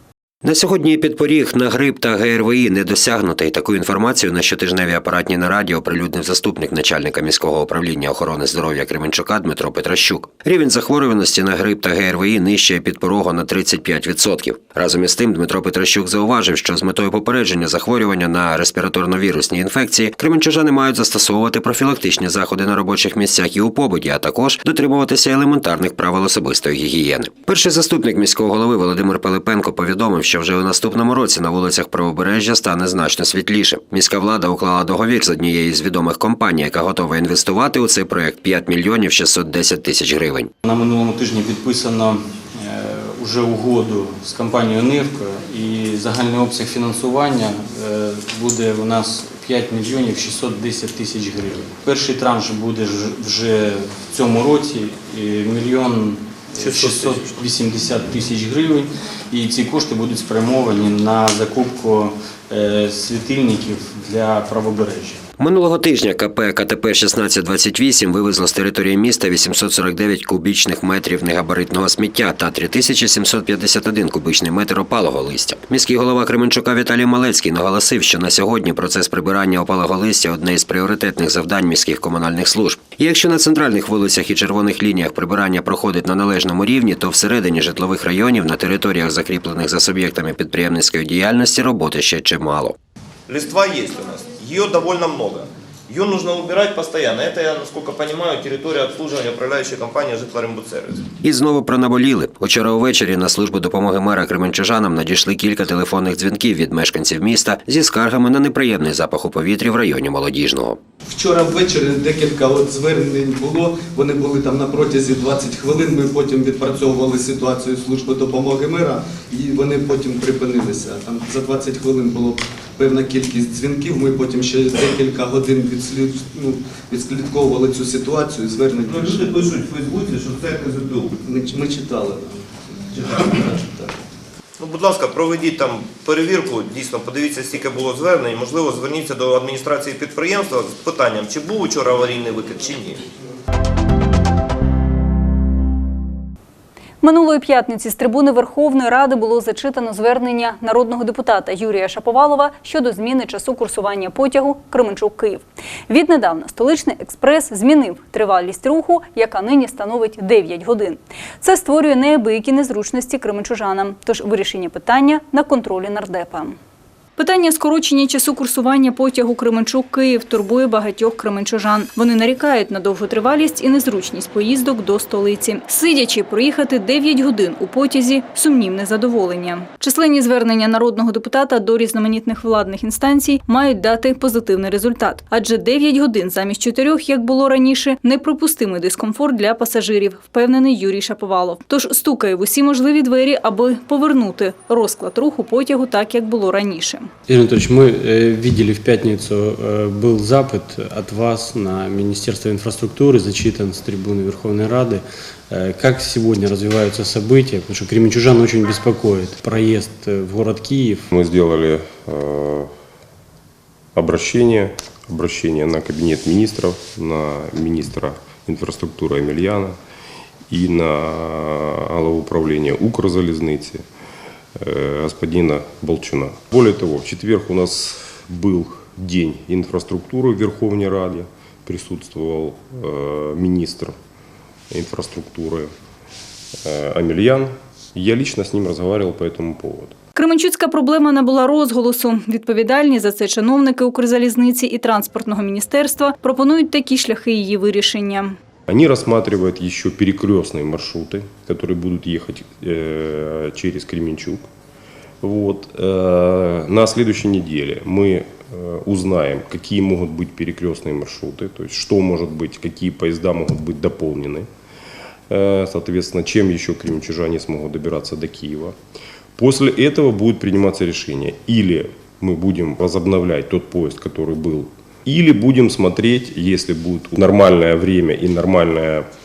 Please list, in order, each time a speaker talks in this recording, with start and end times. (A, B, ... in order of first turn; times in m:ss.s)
0:00.4-0:40.5 A
0:40.6-0:42.1 B
0:42.8-0:50.5 B
0:51.8-0:56.0 B
0:56.6-0:58.8 B
0:56.8-0:57.4 C
0:59.4-1:02.1 B
1:03.2-1:04.0 B
1:04.5-1:05.0 B
1:05.4-1:32.8 A
1:33.3-1:41.0 D
1:41.2-1:50.8 A
1:51.1-2:09.3 E
2:08.8-2:11.2 D
2:11.2-2:12.4 E
2:13.0-2:13.5 D
2:13.0-2:14.0 E
2:14.6-2:23.0 D
2:27.0-2:46.6 F
2:47.2-3:17.1 F
3:17.3-3:31.0 C
3:31.1-3:32.7 G
3:34.0-3:39.8 G
3:40.5-3:43.8 G
3:44.6-3:53.9 G
3:54.7-3:55.7 G
3:56.6-3:59.9 G
4:00.2-4:08.4 F
4:08.7-4:14.5 G
4:15.2-4:24.5 G
4:25.3-4:28.7 G
4:29.4-4:39.1 G